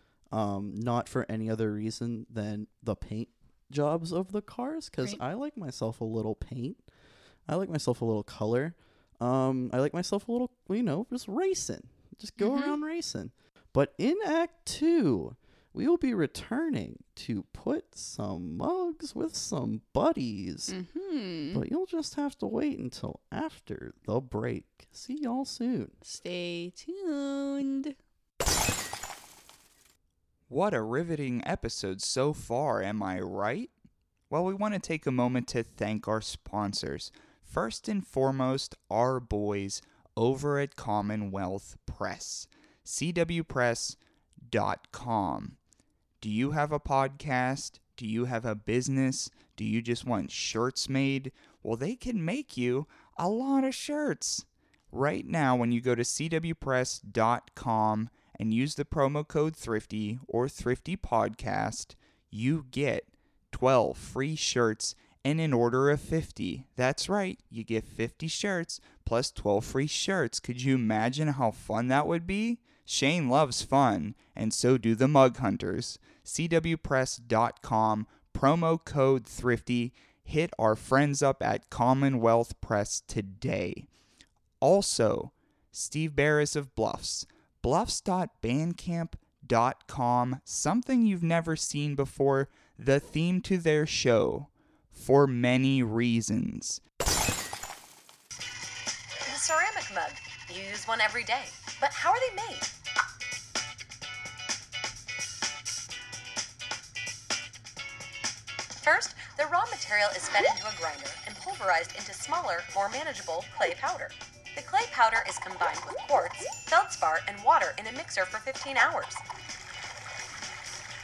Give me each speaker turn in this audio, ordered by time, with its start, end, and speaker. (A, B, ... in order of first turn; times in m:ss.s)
0:00.3-0:06.8 A
0:07.5-0:20.7 A
0:12.4-0:12.8 B
0:20.7-0:21.6 B
0:21.5-0:25.9 A
0:26.0-0:27.9 B
0:30.5-0:33.7 C
0:34.3-0:44.0 C
0:44.5-0:45.6 C
0:46.2-1:23.9 C
1:24.6-1:36.8 C
1:39.2-1:42.7 D
1:48.8-1:59.2 D